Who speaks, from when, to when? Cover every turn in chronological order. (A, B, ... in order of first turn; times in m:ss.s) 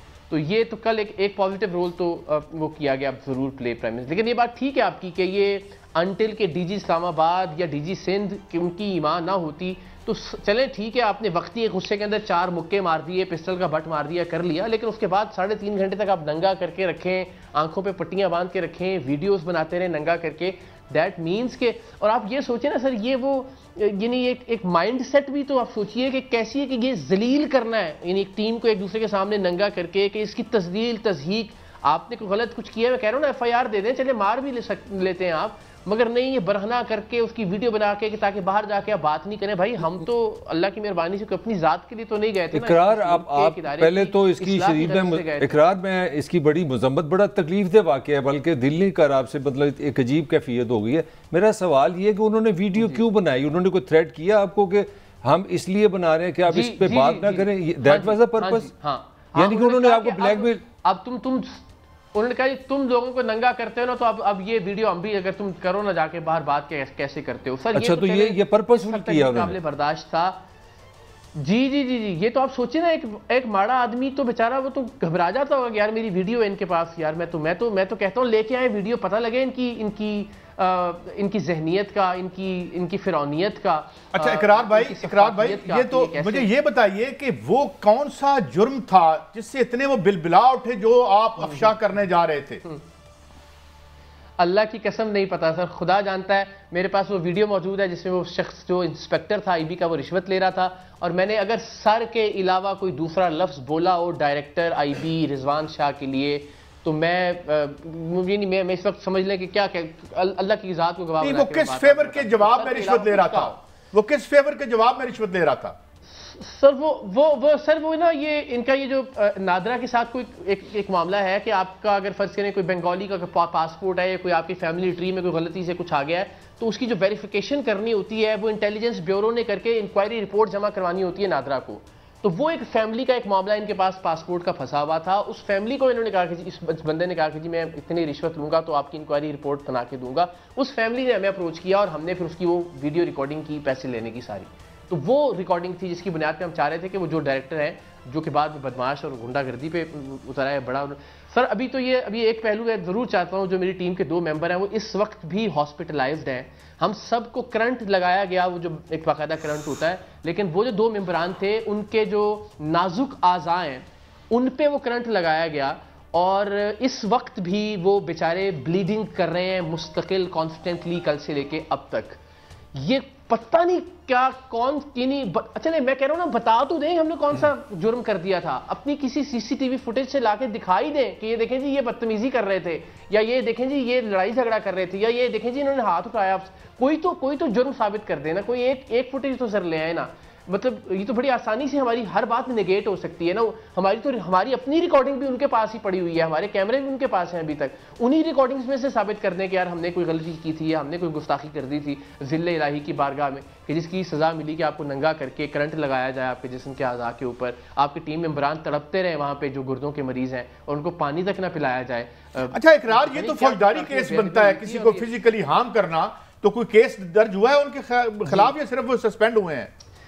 0:00.3-0:45.6 A
0:42.5-0:58.7 B
0:52.8-0:53.0 A
0:56.5-1:01.6 A
0:59.3-1:00.6 B
1:02.1-1:10.4 A
1:07.7-1:09.6 B
1:11.3-1:26.5 A
1:24.1-1:32.6 C
1:31.4-1:31.7 A
1:34.4-1:53.6 A
1:51.2-1:55.8 C
1:56.2-2:52.2 A
2:52.7-3:35.1 A
3:32.5-3:39.7 C
3:38.3-3:38.5 A